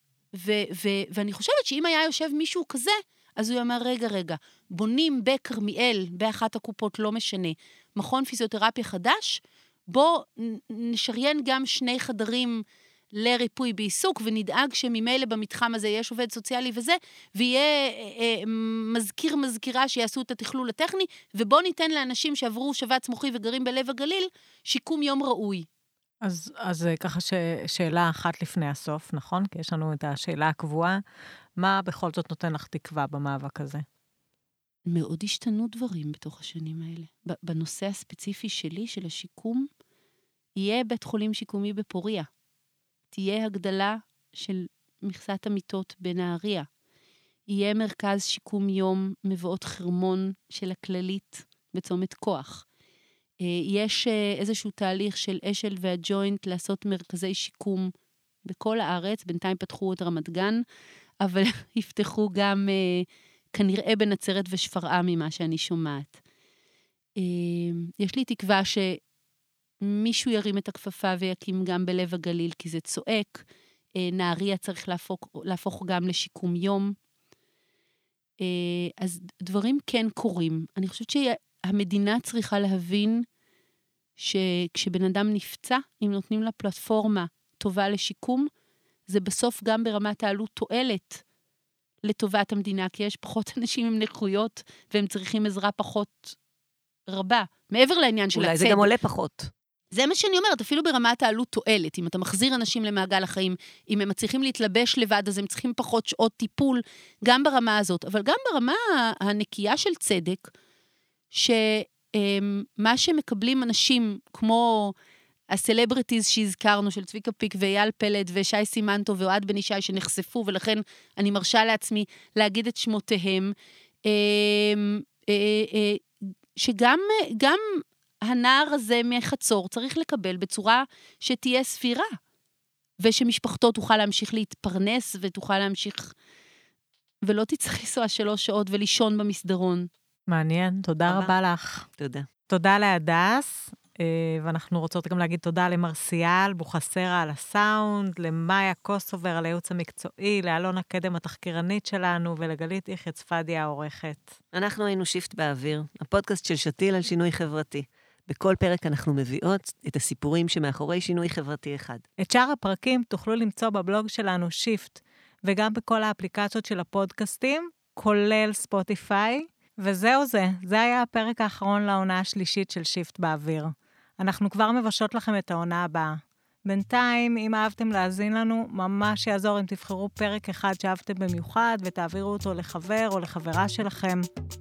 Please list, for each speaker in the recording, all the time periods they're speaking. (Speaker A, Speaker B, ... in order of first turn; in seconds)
Speaker A: 0.3-25.7, 34.9-39.7, 40.6-42.3, 43.1-46.7, 47.5-52.6, 53.4-57.9, 58.5-60.6, 61.2-66.2, 67.2-69.0, 69.8-73.4, 74.0-77.0, 78.4-83.2, 84.2-88.5, 89.1-91.2, 92.0-96.4, 97.1-98.9, 99.9-110.5, 111.3-114.9, 115.5-123.5, 124.0-126.0, 126.6-132.1, 133.0-136.1, 137.2-139.9
Speaker B: 26.2-31.0, 31.6-33.9, 140.3-141.9, 142.5-154.4, 162.2-184.3
Speaker C: 98.3-99.5, 141.1-141.3, 142.0-142.3, 154.5-162.0